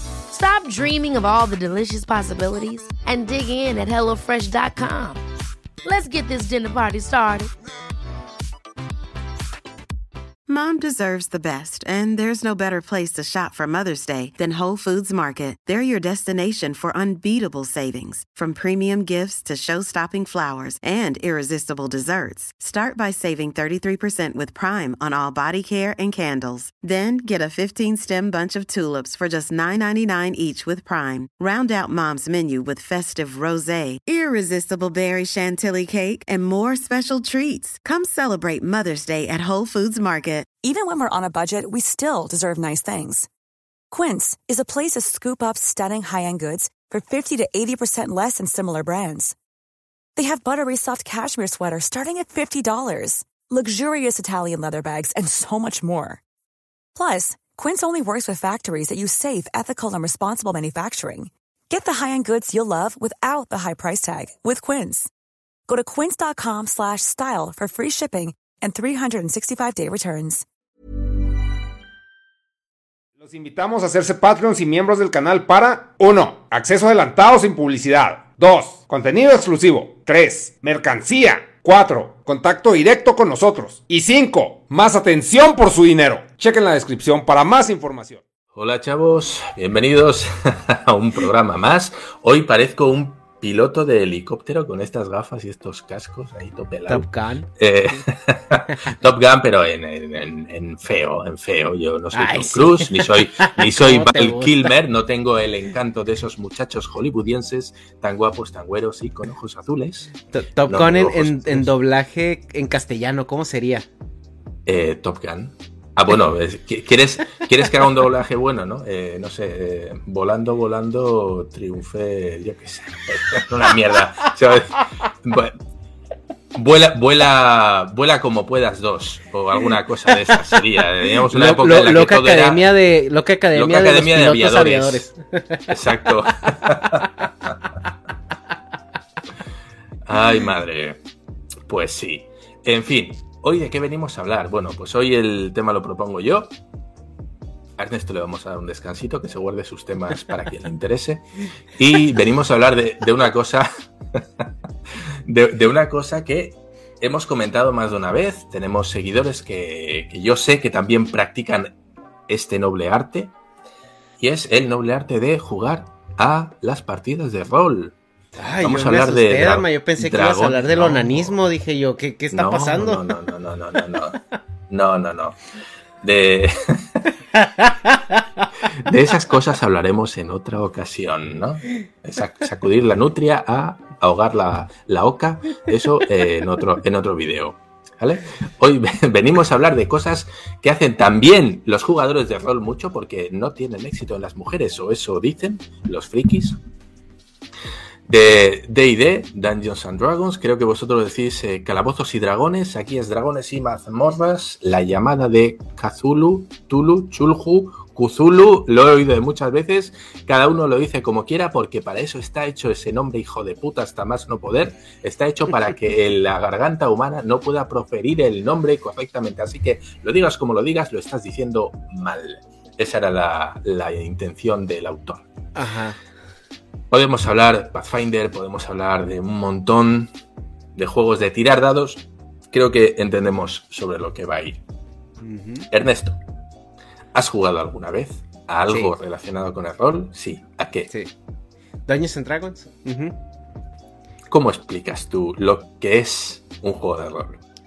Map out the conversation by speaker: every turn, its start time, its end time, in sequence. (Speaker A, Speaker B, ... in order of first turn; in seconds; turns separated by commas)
Speaker A: 0.3-5.2, Speaker A: 5.8-7.5, Speaker B: 10.5-40.5, Speaker C: 40.6-43.3, Speaker C: 43.9-49.3, Speaker C: 50.1-56.2, Speaker C: 56.9-65.1, Speaker C: 65.7-70.4, Speaker D: 73.2-88.2, Speaker E: 88.5-110.1, Speaker F: 96.9-97.5, Speaker F: 102.1-104.7, Speaker F: 110.3-113.8, Speaker E: 110.7-111.7, Speaker E: 114.7-125.6, Speaker E: 126.5-132.7, Speaker F: 131.2-135.8, Speaker E: 133.5-135.1, Speaker E: 135.7-137.1, Speaker F: 136.4-136.8, Speaker E: 140.1-141.0, Speaker E: 141.7-146.5, Speaker E: 147.8-154.5, Speaker E: 155.2-161.7, Speaker E: 162.3-163.3, Speaker E: 164.2-167.9, Speaker F: 168.4-173.1, Speaker E: 168.6-171.4, Speaker E: 172.3-175.4, Speaker E: 176.0-177.0, Speaker F: 177.3-178.2, Speaker E: 178.8-196.6, Speaker E: 198.1-225.3, Speaker F: 225.6-226.0, Speaker E: 226.9-230.1, Speaker E: 230.7-234.6, Speaker F: 235.2-235.7, Speaker E: 235.7-236.2, Speaker E: 237.1-240.9, Speaker F: 241.9-243.2, Speaker E: 244.3-247.4